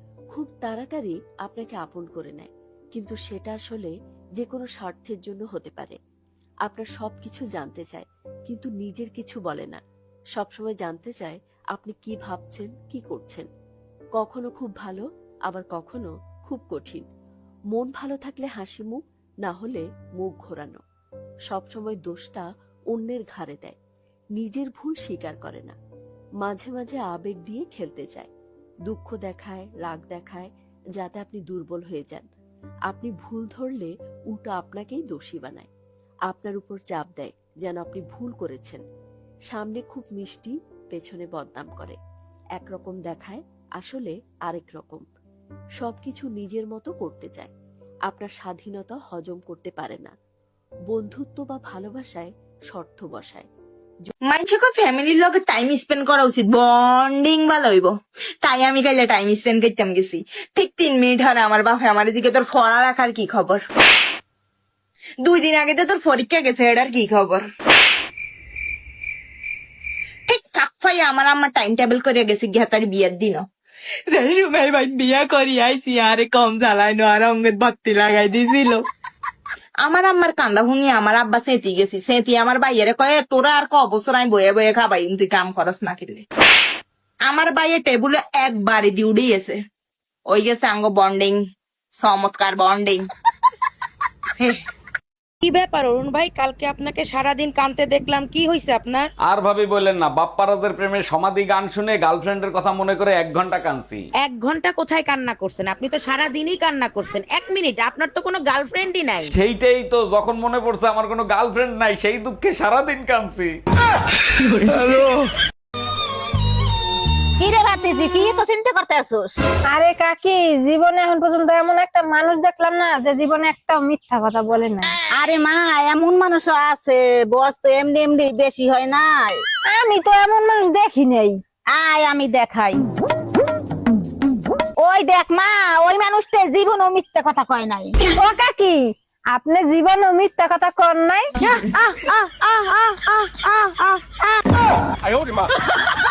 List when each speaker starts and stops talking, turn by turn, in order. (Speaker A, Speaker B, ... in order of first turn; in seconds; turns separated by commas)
Speaker A: 0.3-6.0, Speaker A: 6.7-9.8, Speaker A: 10.4-13.5, Speaker A: 14.2-17.0, Speaker A: 17.7-20.8, Speaker A: 21.5-23.8, Speaker A: 24.4-25.8, Speaker A: 26.4-28.3, Speaker A: 28.9-32.3, Speaker A: 32.9-35.7, Speaker A: 36.3-38.8, Speaker A: 39.5-42.0, Speaker A: 42.6-45.0, Speaker A: 45.8-47.5, Speaker A: 48.1-50.1, Speaker A: 50.9-53.5, Speaker B: 54.2-57.9, Speaker B: 58.4-63.6, Speaker B: 65.2-67.4, Speaker B: 70.3-73.4, Speaker B: 74.1-78.8, Speaker B: 79.8-86.2, Speaker B: 87.2-89.6, Speaker B: 90.3-91.4, Speaker B: 92.0-93.0, Speaker C: 95.4-99.1, Speaker D: 99.2-104.0, Speaker C: 104.2-109.3, Speaker D: 109.3-113.5, Speaker E: 117.4-119.3, Speaker F: 119.7-124.9, Speaker E: 125.1-129.4, Speaker F: 129.7-131.4, Speaker E: 131.7-132.8, Speaker E: 134.8-137.9, Speaker F: 138.0-144.3